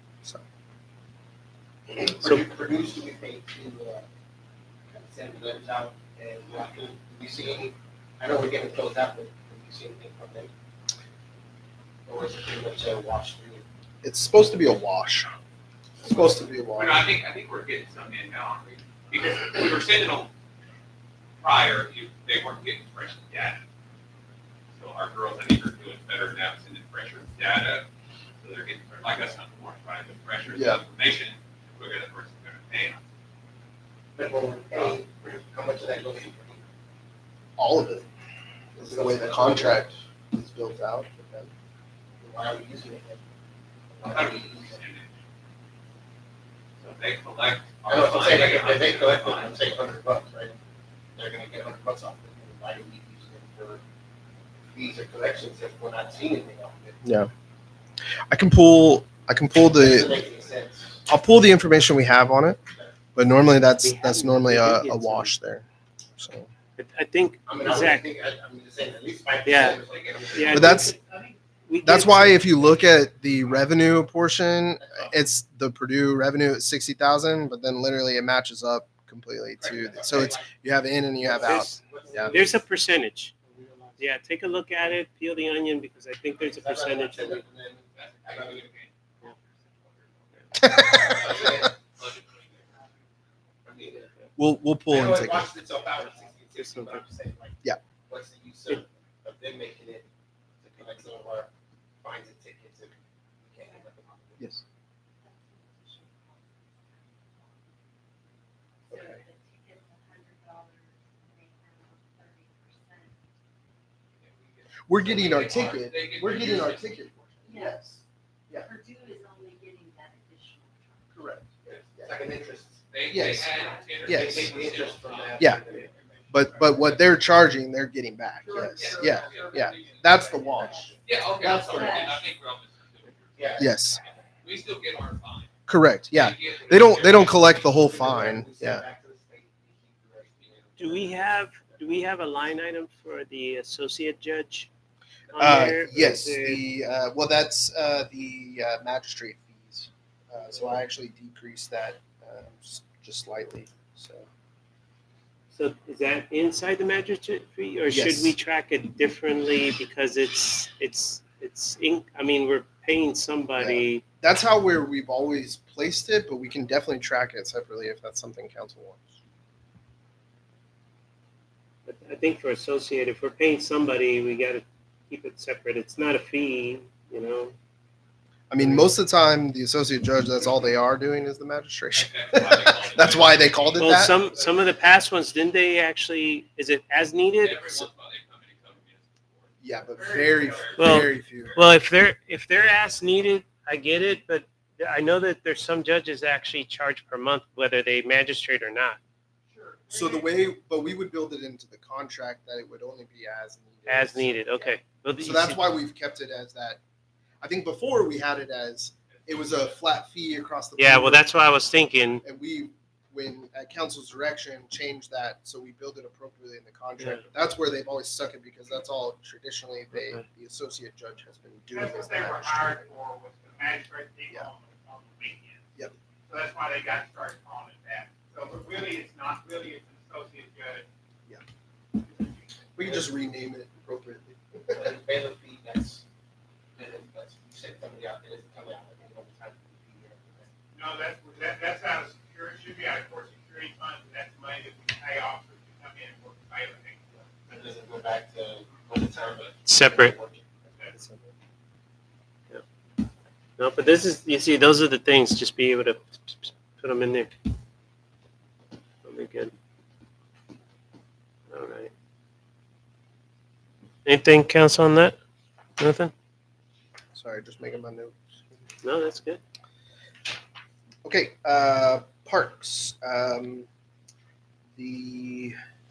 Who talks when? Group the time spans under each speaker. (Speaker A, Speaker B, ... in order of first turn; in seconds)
Speaker A: 1.9-4.0, 4.9-10.5, 12.1-13.6, 34.1-36.6, 38.8-39.9, 42.2-43.2, 43.9-44.8, 47.9-50.6, 51.1-53.8, 54.7-57.0, 59.7-61.0, 67.5-70.9, 79.6-80.5, 81.3-82.6, 83.5-84.0, 86.5-88.8, 90.9-91.7, 93.6-94.1, 94.9-100.1, 100.6-101.5, 102.0-104.6, 121.7-127.0, 130.6-132.2, 133.4-134.1, 136.4-141.8, 234.7-236.0, 236.8-240.5, 247.5-250.5
Speaker B: 14.0-15.3, 16.0-17.1, 30.5-30.8, 37.6-38.1, 38.8-41.5, 57.0-57.3, 58.3-60.1, 61.1-62.6, 63.1-65.6, 66.2-66.5, 70.5-70.9, 71.8-82.3, 90.6-91.2, 94.4-95.5, 108.9-109.2, 114.9-118.7, 121.1-122.2, 123.1-124.5, 125.4-125.6, 126.3-130.9, 133.6-134.0, 135.7-138.8, 145.4-154.3, 157.9-158.3, 163.6-169.1, 178.5-184.2, 189.6-191.6, 199.9-206.8, 207.4-211.3, 212.2-222.9, 232.8-234.9, 250.9-251.3, 267.1-268.2, 271.0-273.7, 274.8-275.6
Speaker C: 16.7-20.3, 21.4-23.6, 24.7-27.9, 28.4-33.0, 44.0-45.1, 46.8-49.6, 69.8-70.8, 87.9-88.9, 90.8-92.8, 114.2-117.1, 122.9-125.4, 128.7-130.1, 131.0-135.5, 136.1-137.5, 181.9-184.0, 187.4-189.6, 190.4-191.6, 209.1-209.8
Speaker D: 63.8-65.3, 66.8-68.1, 69.4-69.8, 70.3-70.9, 71.6-72.6, 81.3-83.3, 84.0-87.4, 96.5-97.0, 140.8-144.7, 145.3-146.6, 155.5-164.0, 171.9-177.5, 178.6-178.9, 183.8-187.8, 190.8-199.0, 203.8-205.7, 210.8-212.2, 217.0-217.2, 219.9-220.2, 249.6-250.2, 253.6-257.3, 259.0-259.5, 261.5-261.9, 264.0-265.1, 265.8-266.1, 268.8-269.4
Speaker E: 71.0-71.3, 128.4-130.2, 189.8-191.0, 199.5-200.3, 221.7-225.7, 226.3-230.8, 240.7-247.1
Speaker F: 105.2-113.9, 117.4-118.0, 118.5-121.3, 123.5-124.0, 130.5-132.2